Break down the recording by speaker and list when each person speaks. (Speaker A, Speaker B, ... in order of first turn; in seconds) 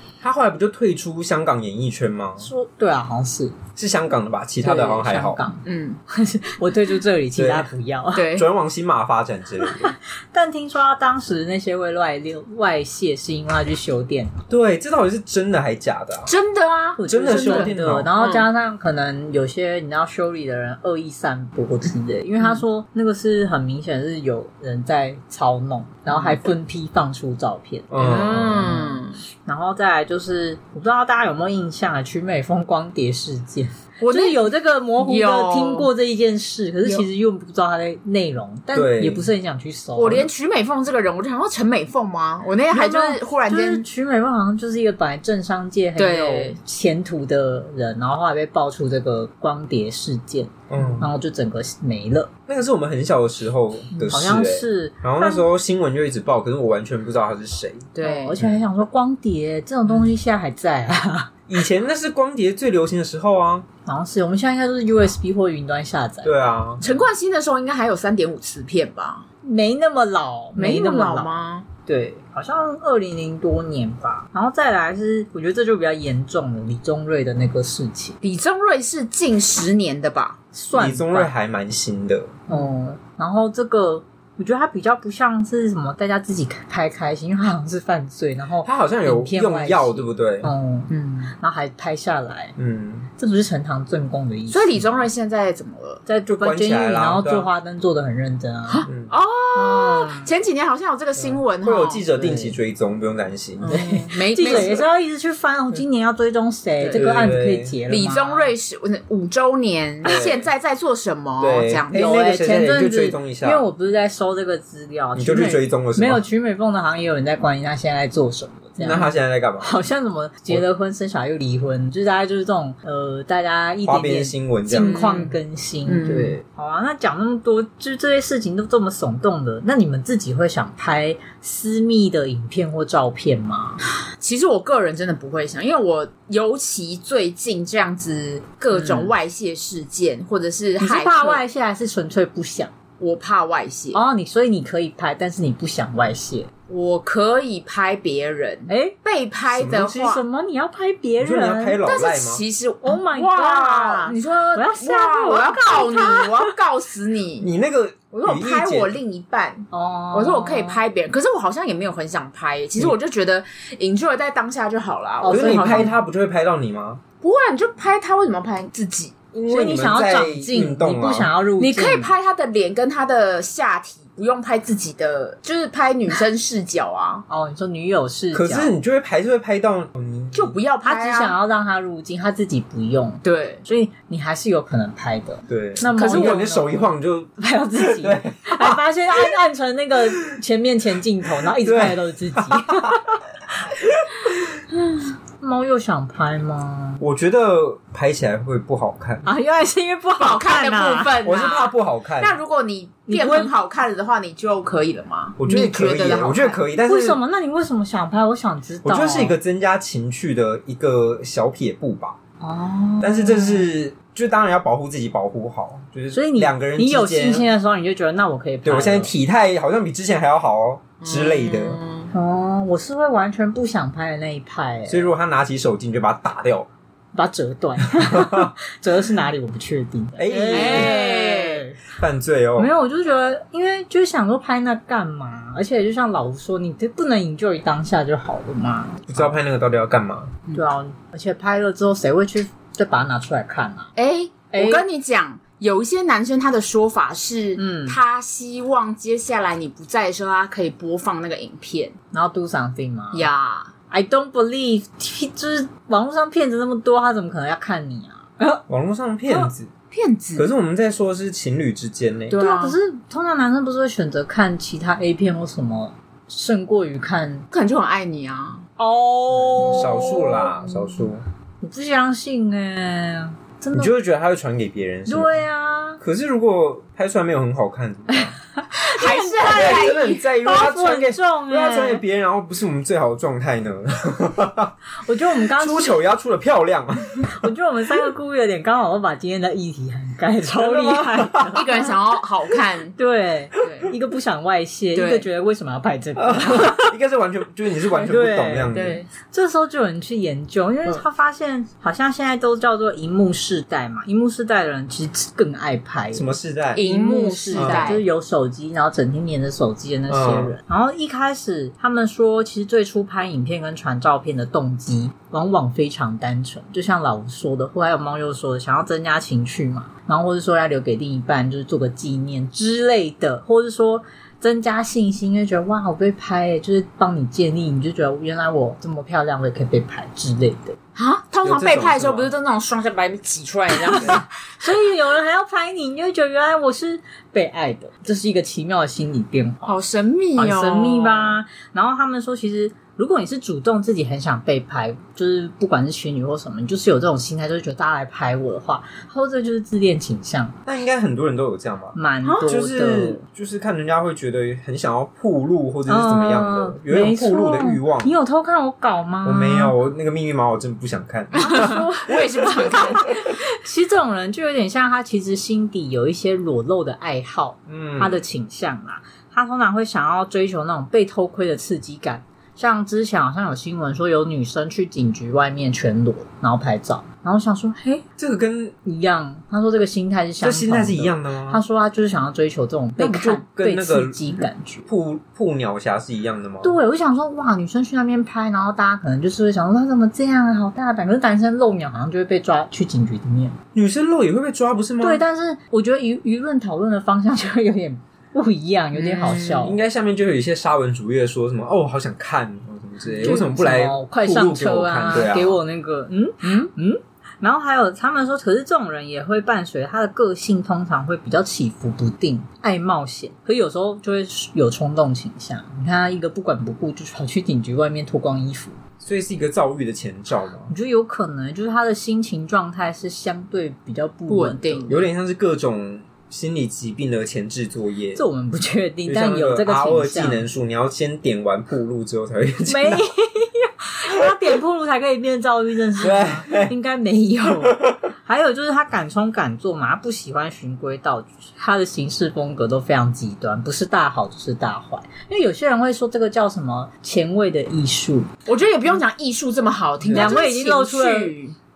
Speaker A: 0.2-2.5, 3.8-5.4, 7.3-7.7, 8.3-9.9, 14.5-16.3, 17.1-18.1, 27.9-28.9, 38.7-39.3, 50.7-51.1, 52.5-58.6, 61.5-63.6, 66.2-66.8, 80.7-82.4, 88.6-90.5, 92.6-93.1, 96.3-97.5, 101.2-103.7, 104.4-104.8, 106.9-107.8, 110.0-110.5, 111.4-113.6, 115.2-116.2, 118.8-119.7, 123.8-125.2, 149.5-150.2, 151.2-152.4, 157.4-159.0, 165.3-167.0, 169.3-171.3, 178.3-180.6, 185.5-188.8, 191.4-193.0, 193.8-194.5, 197.0-199.2, 201.2-202.4, 205.4-207.2, 208.8-212.2, 213.0-217.5, 218.6-221.8, 224.9-226.7, 227.9-228.5, 230.2-231.0, 232.0-232.7, 239.1-240.4, 258.7-259.7, 260.4-262.4, 269.4-271.2, 273.7-275.4, 276.0-278.3, 279.4-284.7, 285.6-287.3, 290.6-291.6, 296.1-299.0, 306.1-306.8, 307.5-307.9, 310.1-310.5, 331.4-332.3, 350.6-358.1, 359.2-361.9, 362.4-362.7, 367.7-368.2, 378.2-378.7, 380.4-381.6, 383.0-386.8, 393.7-395.2, 399.6-405.6, 419.0-420.7, 424.9-428.2, 429.1-433.0, 436.0-436.7, 437.6-437.9, 450.0-450.3
Speaker B: 2.4-3.6, 4.6-8.3, 9.6-14.3, 17.0-27.9, 29.4-40.3, 42.7-52.3, 54.0-55.4, 58.0-61.3, 63.9-66.3, 69.4-71.3, 71.8-78.2, 80.5-81.3, 82.5-92.5, 93.2-95.0, 96.0-98.9, 99.5-100.3, 102.2-102.5, 103.7-108.5, 111.9-133.8, 138.7-139.1, 140.8-142.7, 143.9-146.5, 148.7-148.9, 149.9-151.8, 152.8-156.5, 159.7-160.8, 165.2-165.9, 169.5-172.1, 177.3-178.7, 180.8-193.1, 195.4-197.0, 199.2-201.1, 203.1-203.5, 206.8-209.3, 212.4-213.7, 216.1-219.1, 222.1-225.1, 227.1-231.8, 232.6-239.3, 240.5-243.9, 244.5-244.8, 247.6-248.0, 252.1-253.3, 253.9-258.6, 262.4-267.4, 268.8-270.9, 271.6-273.9, 275.1-276.0, 278.1-282.0, 284.9-285.9, 287.3-291.9, 292.9-296.9, 297.9-330.8, 333.9-339.8, 340.4-350.6, 351.9-353.2, 355.9-359.7, 361.4-378.0, 378.8-384.9, 386.6-393.6, 395.0-399.8, 403.1-418.8, 420.7-424.9, 428.1-430.5, 432.7-448.3, 450.1-451.3
Speaker C: 5.6-6.0, 8.1-8.5, 16.3-18.5, 26.1-26.4, 28.0-29.2, 34.0-35.9, 40.0-43.9, 46.0-46.6, 57.9-58.4, 66.8-69.2, 70.5-71.7, 78.2-80.4, 90.9-91.3, 94.5-96.0, 98.7-102.1, 103.6-104.8, 106.8-107.0, 107.9-112.2, 118.8-119.1, 124.7-126.4, 134.2-141.4, 143.0-144.0, 146.7-150.2, 151.8-157.5, 158.1-165.9, 167.2-169.1, 171.6-177.2, 180.3-181.3, 183.2-183.6, 185.9-186.5, 200.2-206.6, 221.0-222.1, 230.5-231.6, 243.9-251.9, 253.1-253.7, 259.9-260.5, 262.3-262.8, 267.5-268.6, 269.8-270.4, 278.8-280.2, 291.5-292.9, 293.6-293.9, 294.9-295.3, 298.7-299.1, 306.7-308.0, 330.9-334.2, 339.6-341.4, 352.2-352.5, 361.4-363.2, 398.9-399.7, 424.3-425.0, 448.4-451.6